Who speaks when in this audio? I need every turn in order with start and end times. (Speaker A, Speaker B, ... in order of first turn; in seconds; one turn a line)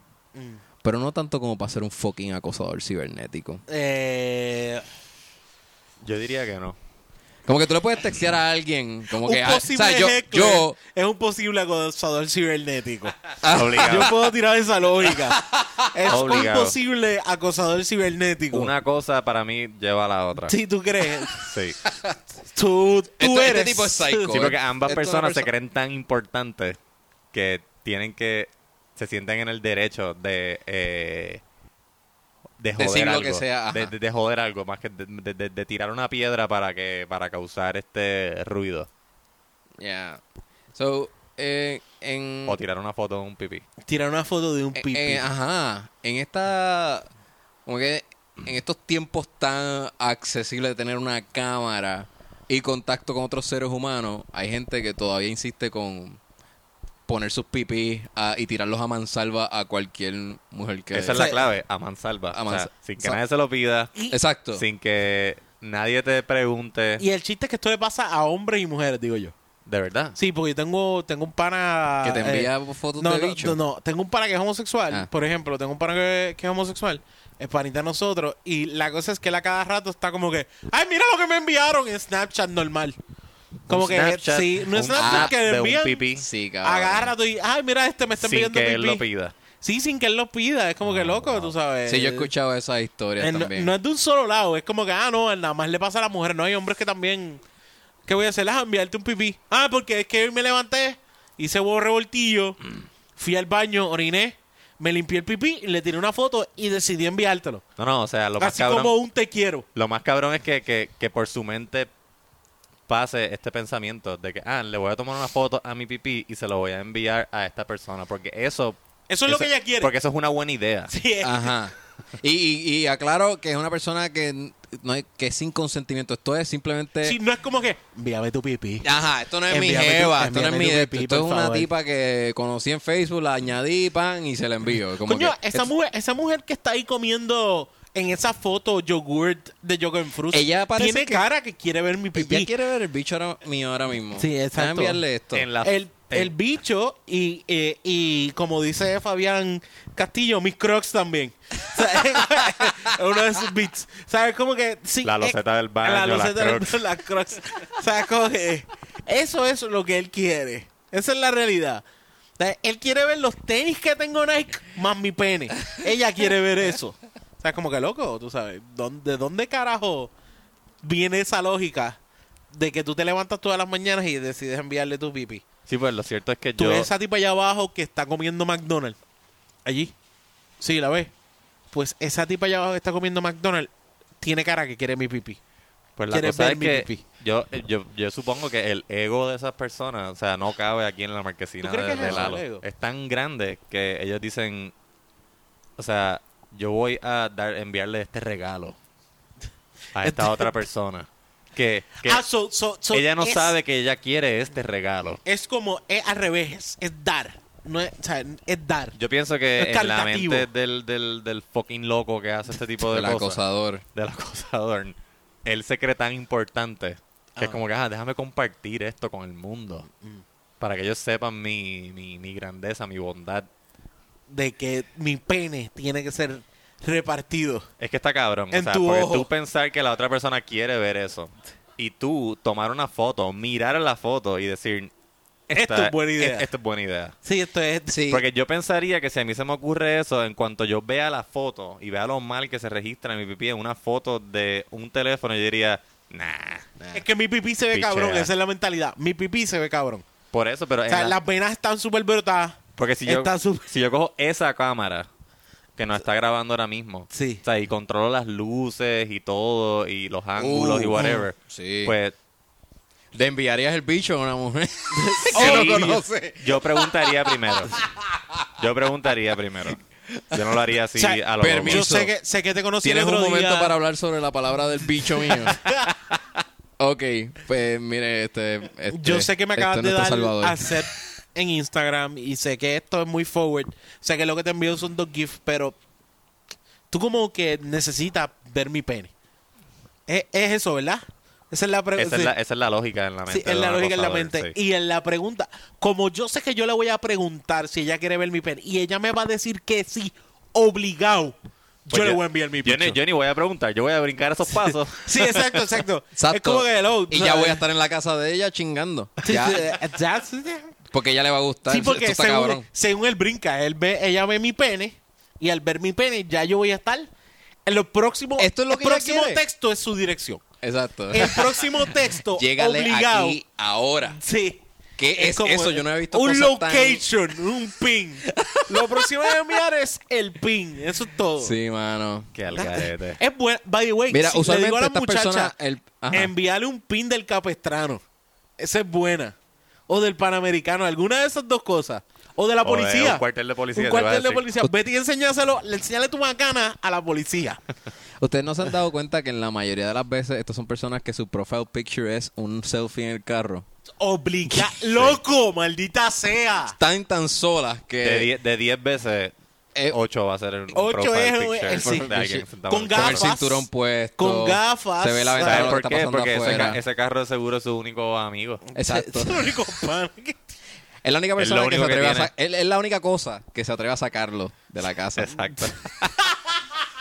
Speaker A: 0.3-0.6
Speaker B: 0.8-3.6
Speaker A: 3.7-4.8
Speaker C: 6.0-6.8
Speaker B: 7.5-10.8
Speaker A: 9.2-13.2
Speaker B: 13.4-14.1
Speaker C: 13.4-14.1
Speaker A: 13.8-18.7
Speaker B: 15.1-16.4
Speaker C: 16.1-16.8
Speaker C: 18.5-20.6
Speaker A: 20.4-21.5
Speaker C: 21.3-21.8
Speaker B: 21.8-22.2
Speaker A: 22.5-24.4
Speaker B: 23.2-25.5
Speaker C: 24.3-26.8
Speaker C: 27.3-31.4
Speaker C: 32.6-38.9
Speaker B: 32.8-33.9
Speaker B: 39.8-40.2
Speaker B: 40.7-42.6
Speaker C: 42.5-43.6
Speaker A: 43.9-45.2
Speaker B: 44.7-47.1
Speaker B: 47.6-56.2
Speaker B: 57.1-61.3
Speaker C: 60.9-63.9
Speaker A: 61.1-61.4
Speaker B: 62.3-63.2
Speaker B: 64.1-64.6
Speaker C: 64.5-67.0
Speaker A: 67.0-69.3
Speaker C: 69.7-70.2
Speaker A: 70.2-83.0
Speaker B: 72.0-73.6
Speaker A: 83.7-86.0
Speaker C: 83.7-86.2
Speaker B: 85.0-85.3
Speaker B: 86.1-87.1
Speaker A: 86.6-89.0
Speaker C: 88.2-89.3
Speaker A: 89.6-92.3
Speaker C: 91.0-91.4
Speaker B: 91.8-93.7
Speaker A: 93.2-97.4
Speaker A: 98.0-102.6
Speaker A: 103.2-107.6
Speaker C: 107.8-108.9
Speaker A: 108.4-109.6
Speaker C: 109.7-111.9
Speaker C: 112.9-120.9
Speaker A: 119.1-119.9
Speaker A: 120.9-121.5
Speaker B: 121.2-127.2
Speaker A: 127.0-128.9
Speaker B: 128.8-135.7
Speaker A: 129.5-131.7
Speaker A: 135.0-142.5
Speaker B: 140.3-141.2
Speaker B: 142.1-145.5
Speaker A: 144.2-145.0
Speaker C: 145.3-146.3
Speaker A: 145.6-161.8
Speaker C: 155.0-156.8
Speaker A: 162.4-170.1
Speaker A: 170.8-172.0
Speaker A: 172.5-175.4
Speaker C: 175.7-176.9
Speaker A: 176.6-179.0
Speaker A: 179.6-179.9
Speaker A: 180.6-181.1
Speaker A: 181.7-185.4
Speaker C: 186.0-194.7
Speaker A: 186.1-187.0
Speaker A: 191.6-192.6
Speaker C: 195.8-198.8
Speaker C: 199.9-202.2
Speaker A: 200.0-200.5
Speaker A: 202.0-203.5
Speaker C: 202.9-205.2
Speaker A: 205.2-208.9
Speaker C: 208.9-213.4
Speaker A: 209.6-210.5
Speaker B: 212.8-213.8
Speaker C: 213.9-219.8
Speaker C: 220.6-223.5
Speaker A: 224.3-227.7
Speaker C: 227.8-234.9
Speaker A: 228.5-229.3
Speaker C: 235.5-237.2
Speaker A: 235.5-236.5
Speaker A: 237.2-238.0
Speaker B: 237.9-238.2
Speaker C: 238.1-246.7
Speaker A: 246.9-250.0
Speaker C: 247.7-248.3
Speaker C: 250.3-251.1
Speaker A: 250.9-253.7
Speaker C: 252.8-255.1
Speaker C: 255.8-262.1
Speaker A: 257.1-257.4
Speaker B: 260.4-261.9
Speaker A: 261.0-261.2
Speaker B: 263.1-267.1
Speaker A: 264.9-266.3
Speaker C: 265.3-267.8
Speaker C: 268.6-269.8
Speaker B: 270.1-270.6
Speaker C: 270.3-271.9
Speaker A: 270.9-273.7
Speaker B: 271.4-272.1
Speaker B: 272.8-275.7
Speaker A: 275.1-275.9
Speaker B: 276.8-280.7
Speaker A: 278.9-285.8
Speaker A: 286.9-289.1
Speaker A: 290.1-292.3
Speaker C: 292.0-294.5
Speaker A: 293.3-301.4
Speaker A: 301.9-303.0
Speaker C: 301.9-305.6
Speaker A: 304.6-307.6
Speaker B: 306.1-309.8
Speaker A: 309.2-310.7
Speaker B: 310.9-312.6
Speaker A: 311.7-317.1
Speaker A: 317.6-320.4
Speaker B: 318.4-319.4
Speaker B: 320.6-324.2
Speaker A: 321.1-323.4
Speaker A: 324.1-331.5
Speaker B: 325.0-327.1
Speaker B: 328.3-329.4
Speaker B: 331.4-332.3
Speaker C: 332.3-333.2
Speaker A: 332.5-335.5
Speaker B: 334.1-336.3
Speaker A: 336.1-338.0
Speaker A: 338.6-339.4
Speaker A: 339.9-343.2
Speaker C: 342.6-344.5
Speaker A: 343.7-347.6
Speaker B: 348.2-353.6
Speaker A: 354.0-356.8
Speaker B: 356.6-358.3
Speaker C: 358.0-359.3
Speaker C: 359.9-363.3
Speaker A: 360.7-362.1
Speaker B: 361.7-366.8
Speaker A: 362.7-365.8
Speaker C: 365.4-368.6
Speaker A: 368.7-370.5
Speaker B: 368.8-369.6
Speaker B: 371.0-375.7
Speaker C: 371.4-372.3
Speaker C: 375.1-376.1